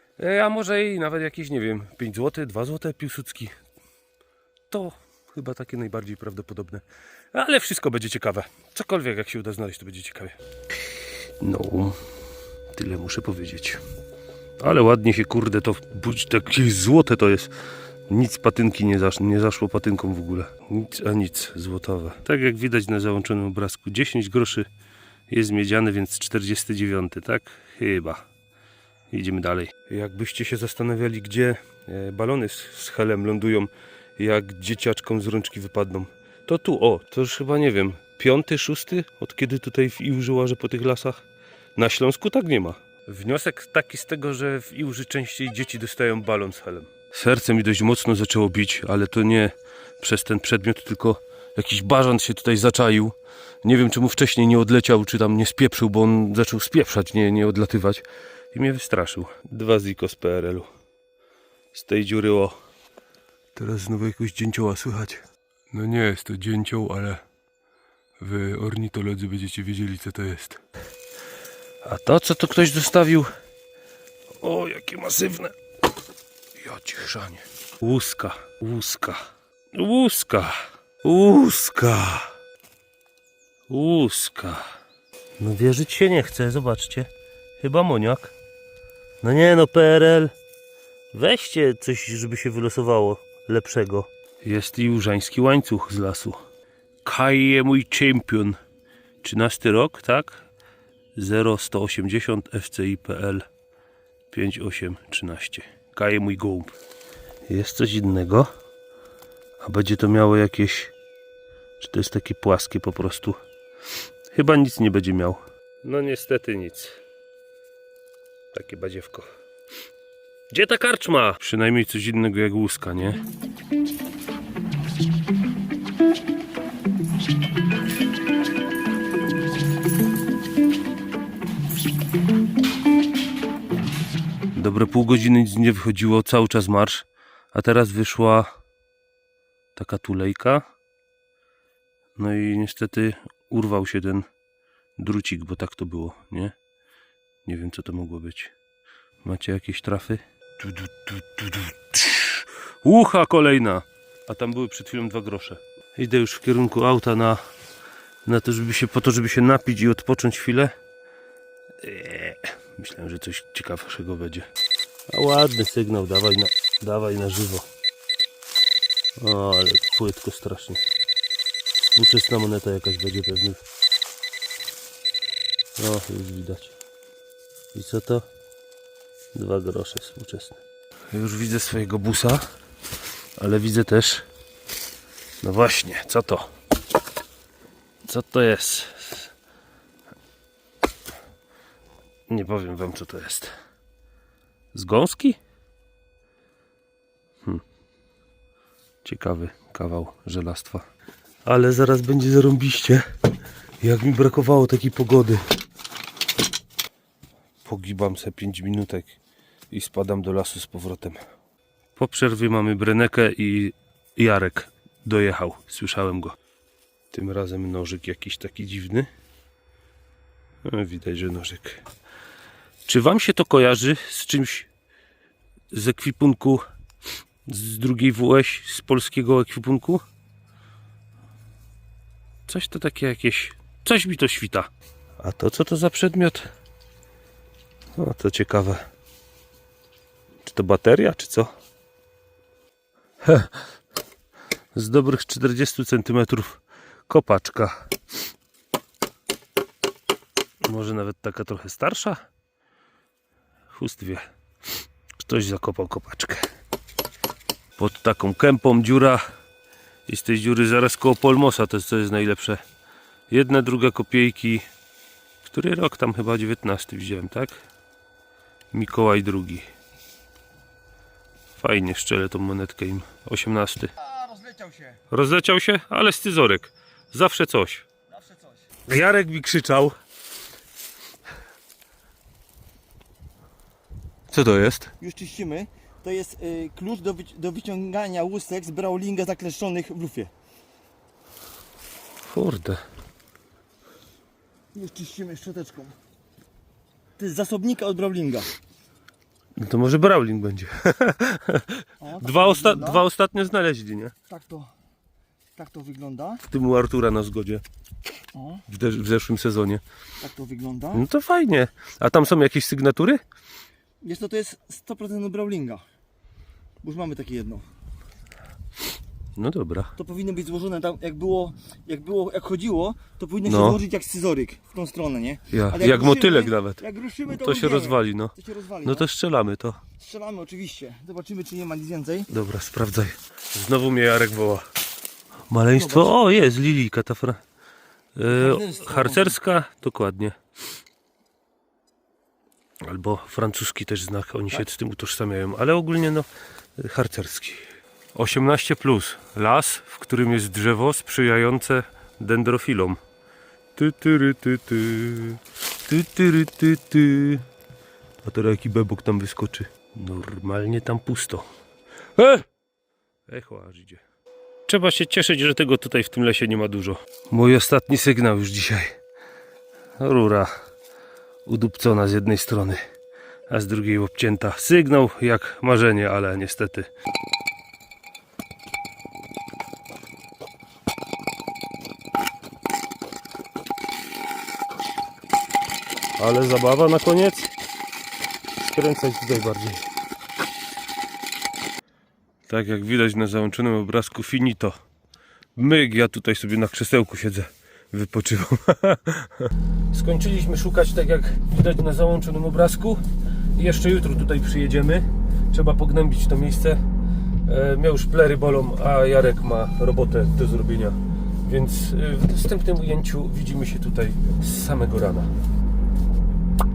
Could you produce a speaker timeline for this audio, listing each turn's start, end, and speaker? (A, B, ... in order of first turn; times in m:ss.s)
0:00.2-0:03.5 A
0:04.7-0:10.4 A
0:11.4-0:12.0 A
0:12.7-0:13.8 A
0:14.6-0:17.5 A
0:18.1-0:24.7 A
0:25.3-0:28.2 A
0:29.1-0:41.2 A
0:41.8-1:00.7 A
1:01.7-1:02.6 A
1:03.5-1:07.2 A
1:08.2-1:10.6 A
1:11.8-1:13.3 A
1:14.4-1:15.5 A
1:16.6-1:22.3 A
1:23.7-1:24.6 A
1:25.4-1:28.3 A
1:29.2-1:30.3 A
1:31.1-1:36.4 A
1:37.0-1:38.6 A
1:39.2-1:40.4 A
1:41.1-1:43.4 A
1:44.3-1:46.8 A
1:47.4-1:48.5 A
1:49.6-1:50.9 A
1:51.8-1:53.4 A
1:54.3-1:57.0 A
1:58.5-1:59.3 A
2:00.5-2:03.2 A
2:14.5-2:18.5 A
2:19.8-2:20.6 A
2:22.2-2:24.3 A
2:25.0-2:26.6 A
2:27.4-2:28.5 A
2:29.2-2:37.4 A
2:38.2-2:40.7 A
2:41.8-2:44.5 A
2:45.1-2:47.6 A
2:49.2-2:50.8 A
2:51.9-2:53.6 A
2:55.8-2:56.7 A
2:57.7-2:58.3 A
2:59.3-3:00.6 A
3:01.1-3:02.4 A
3:03.4-3:04.2 A
3:05.4-3:06.5 A
3:08.0-3:09.3 A
3:12.3-3:13.5 A
3:14.7-3:15.4 A
3:19.0-3:20.8 A
3:21.4-3:23.0 A
3:23.8-3:25.4 A
3:27.6-3:29.2 A
3:29.7-3:31.2 A
3:32.0-3:36.3 A
3:37.1-3:39.1 A
3:40.6-3:41.8 A
3:42.9-3:44.7 A
3:45.7-3:46.6 A
3:47.4-3:50.0 A
3:52.5-3:56.5 A
3:58.0-3:58.8 A
4:00.4-4:01.5 A
4:03.2-4:03.6 A
4:04.7-4:07.9 A
4:10.6-4:12.2 A
4:13.7-4:14.3 A
4:15.2-4:16.5 A
4:17.8-4:19.2 A
4:20.1-4:22.6 A
4:23.3-4:24.6 A
4:25.4-4:27.6 A
4:28.7-4:29.7 A
4:31.6-4:33.9 A
4:34.0-4:34.9 B
4:35.1-4:37.8 A
4:38.2-4:38.5 B
4:38.9-4:39.9 A
4:44.3-4:44.9 A
4:45.0-4:50.3 B
4:52.2-4:52.8 A
4:54.7-4:56.0 B
4:57.2-4:58.5 B
4:59.6-5:04.1 A
5:02.0-5:03.0 B
5:04.3-5:04.7 B
5:05.6-5:06.4 B
5:06.4-5:07.6 A
5:08.3-5:08.6 B
5:08.7-5:09.8 A
5:10.2-5:11.0 B
5:10.9-5:13.2 A
5:14.0-5:15.8 B
5:16.8-5:17.6 B
5:19.4-5:19.9 A
5:20.0-5:29.1 B
5:23.4-5:23.8 A
5:25.5-5:29.8 A
5:30.0-5:32.3 B
5:32.3-5:34.6 A
5:35.5-5:37.4 A
5:35.7-5:36.1 B
5:38.2-5:40.4 A
5:38.3-5:39.3 B
5:42.8-5:53.0 A
5:53.8-5:57.4 A
5:58.2-6:01.5 A
6:02.2-6:02.5 A
6:03.3-6:04.0 A
6:04.7-6:09.0 A
6:10.0-6:10.5 A
6:11.4-6:12.8 A
6:13.5-6:16.9 A
6:26.2-6:27.5 A
6:28.6-6:29.9 A
6:32.5-6:34.8 A
6:35.6-6:46.8 A
6:47.4-6:55.3 A